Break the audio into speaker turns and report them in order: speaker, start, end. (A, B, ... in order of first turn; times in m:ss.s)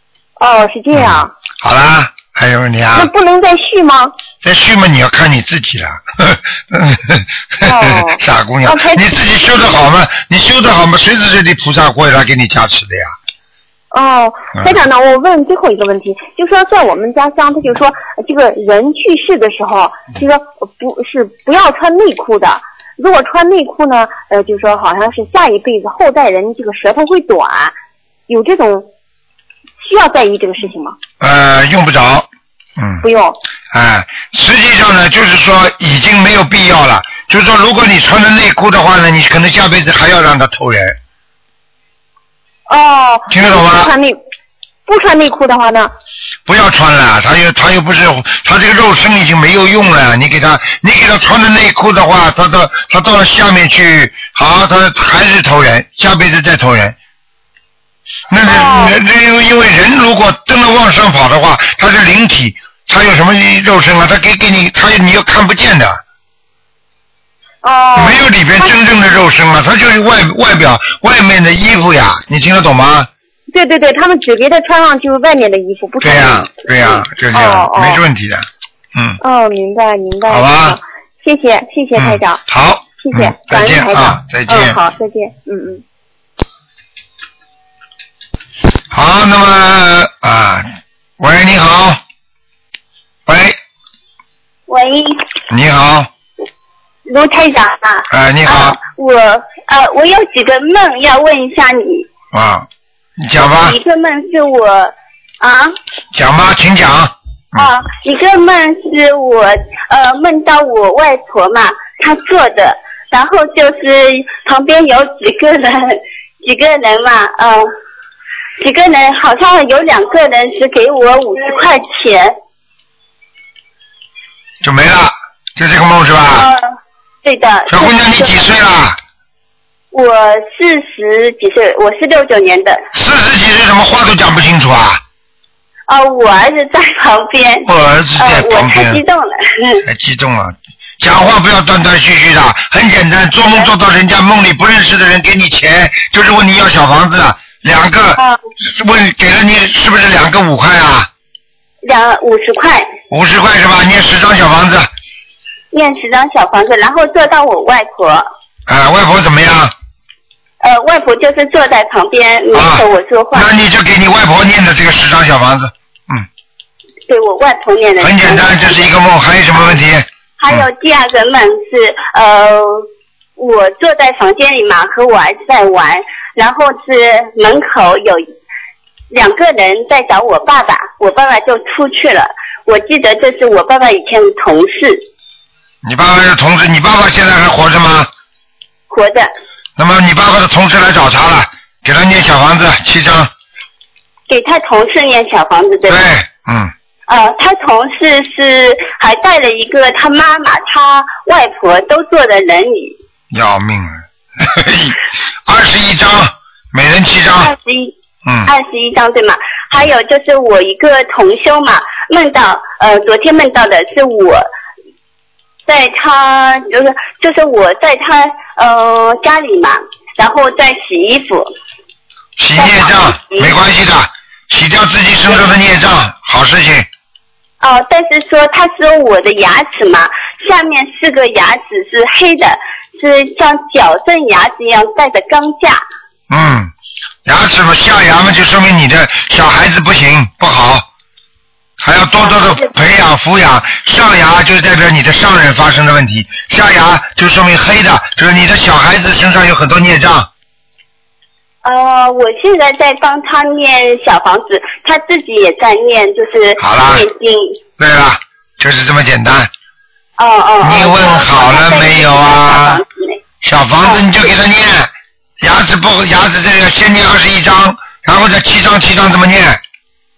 0:00.4-0:01.3 A
0:00.9-0:03.1 B
0:02.9-0:04.2 A
0:04.4-0:13.1 B
0:07.6-0:09.2 A
0:13.9-0:27.7 A
0:28.3-0:28.9 A
0:29.8-0:31.0 A
0:31.2-0:33.0 B
0:33.0-0:33.4 A
0:33.7-0:41.0 B
0:42.7-0:44.2 A
0:43.3-0:43.9 B
0:44.9-0:45.9 A
0:46.4-0:57.0 B
0:58.3-1:06.0 B
0:58.4-0:59.0 A
1:07.6-1:08.7 A
1:08.0-1:13.1 B
1:13.5-1:16.5 A
1:16.0-1:19.2 B
1:17.3-1:18.0 A
1:19.2-1:22.4 A
1:20.3-1:20.8 B
1:22.0-1:24.8 B
1:23.0-1:25.8 A
1:28.9-1:30.7 B
1:31.2-1:32.0 B
1:33.2-1:33.6 B
1:34.7-1:35.2 C
1:35.5-1:36.1 B
1:37.1-1:42.1 C
1:38.1-1:38.8 B
1:42.3-1:42.7 B
1:43.2-1:43.8 B
1:43.4-1:45.8 C
1:46.1-1:47.7 B
1:47.6-1:57.7 C
1:58.6-2:02.4 C
2:04.6-2:06.5 B
2:06.3-2:06.7 C
2:07.2-2:08.4 C
2:07.7-2:09.0 B
2:09.9-2:12.8 C
2:12.9-2:15.0 B
2:15.9-2:19.8 C
2:17.6-2:19.0 B
2:19.8-2:31.1 B
2:23.4-2:23.7 C
2:31.8-2:32.9 C
2:33.1-2:34.9 B
2:35.7-2:38.3 C
2:38.7-2:39.7 B
2:40.6-2:43.5 C
2:42.5-2:46.2 B
2:47.1-2:48.8 C
2:48.0-2:50.6 B
2:50.4-2:52.8 C
2:53.4-2:58.3 C
2:59.1-3:05.0 C
3:05.8-3:08.1 B
3:08.9-3:09.3 C
3:09.8-3:13.3 B
3:14.3-3:16.0 C
3:15.9-3:16.7 B
3:17.1-3:23.0 C
3:23.3-3:27.5 B
3:27.4-3:27.9 C
3:28.2-3:28.5 B
3:28.4-3:34.5 C
3:35.7-3:41.5 C
3:42.4-3:46.9 B
3:42.5-3:43.5 C
3:47.6-3:55.8 C
3:56.3-3:56.7 B
3:57.2-4:00.8 B
4:01.8-4:10.3 B
4:02.2-4:02.7 C
4:11.6-4:17.6 C
4:16.6-4:17.0 B
4:17.8-4:19.5 B
4:20.2-4:23.2 C
4:20.6-4:22.8 B
4:23.4-4:29.6 B
4:23.8-4:24.1 C